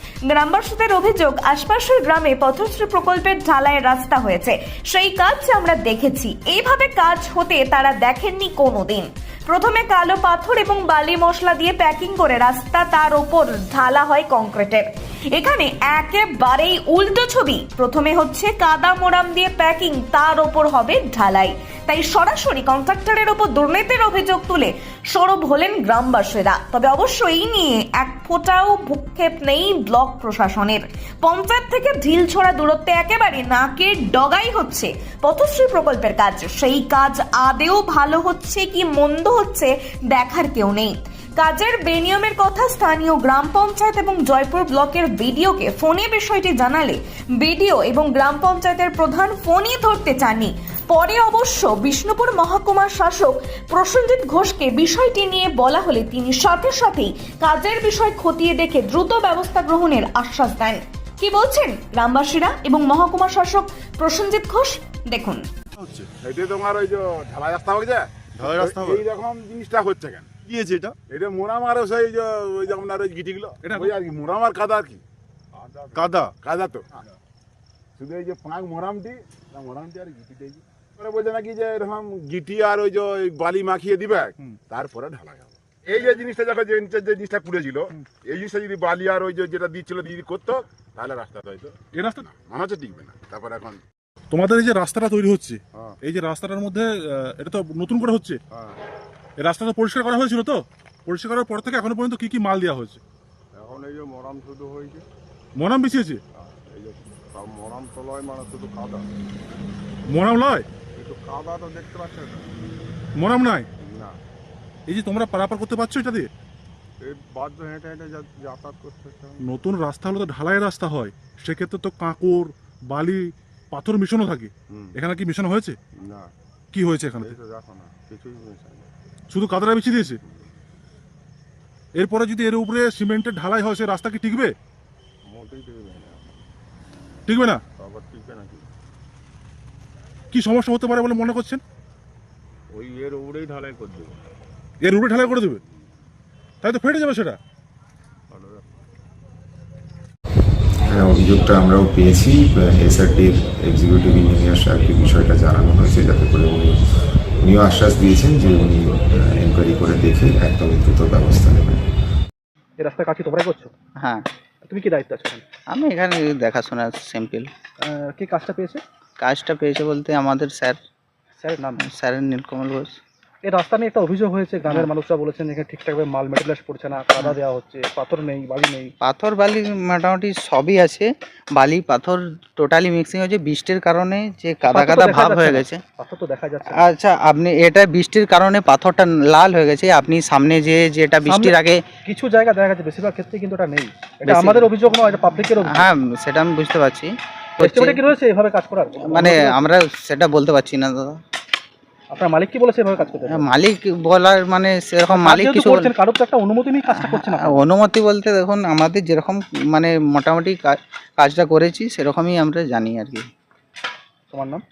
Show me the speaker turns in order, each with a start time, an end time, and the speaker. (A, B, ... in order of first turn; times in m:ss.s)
0:00.3-1:05.4 A
1:06.2-1:10.3 B
1:11.1-1:15.0 B
1:15.6-1:16.2 C
1:16.4-1:16.9 B
1:18.0-1:33.8 B
1:31.9-1:32.2 D
1:34.3-1:38.4 D
1:38.5-1:38.8 C
1:39.4-1:43.0 D
1:43.5-1:45.1 C
1:45.6-1:46.2 D
1:46.4-1:49.1 C
1:50.1-1:50.7 D
1:50.9-1:52.5 C
1:53.2-1:53.7 D
1:53.8-1:54.2 C
1:54.9-1:56.3 D
1:57.0-1:59.4 C
1:59.4-2:05.8 D
2:06.0-2:06.3 C
2:06.7-2:07.3 D
2:07.2-2:08.9 C
2:09.3-2:10.2 D
2:11.9-2:14.5 D
2:15.3-2:16.5 C
2:17.3-2:17.6 D
2:17.8-2:18.7 C
2:20.3-2:21.6 D
2:22.7-2:24.2 C
2:24.8-2:25.6 D
2:26.6-2:27.4 D
2:28.3-2:28.7 C
2:30.9-2:36.8 E
2:37.4-2:41.9 E
2:42.8-2:43.7 F
2:44.0-2:44.3 G
2:44.6-2:45.4 F
2:45.7-2:47.5 G
2:47.8-2:48.8 F
2:49.2-2:50.8 G
2:51.4-2:51.8 F
2:51.8-2:53.0 G
2:53.4-2:58.9 F
2:59.0-3:05.8 G
3:04.7-3:06.8 F
3:06.8-3:11.8 G
3:11.2-3:11.6 F
3:12.1-3:15.9 F
3:14.2-3:18.1 G
3:17.6-3:19.6 F
3:19.0-3:21.2 G
3:22.1-3:23.4 F
3:23.0-3:25.9 G
3:25.1-3:27.6 F
3:26.9-3:33.3 G
3:34.3-3:34.6 F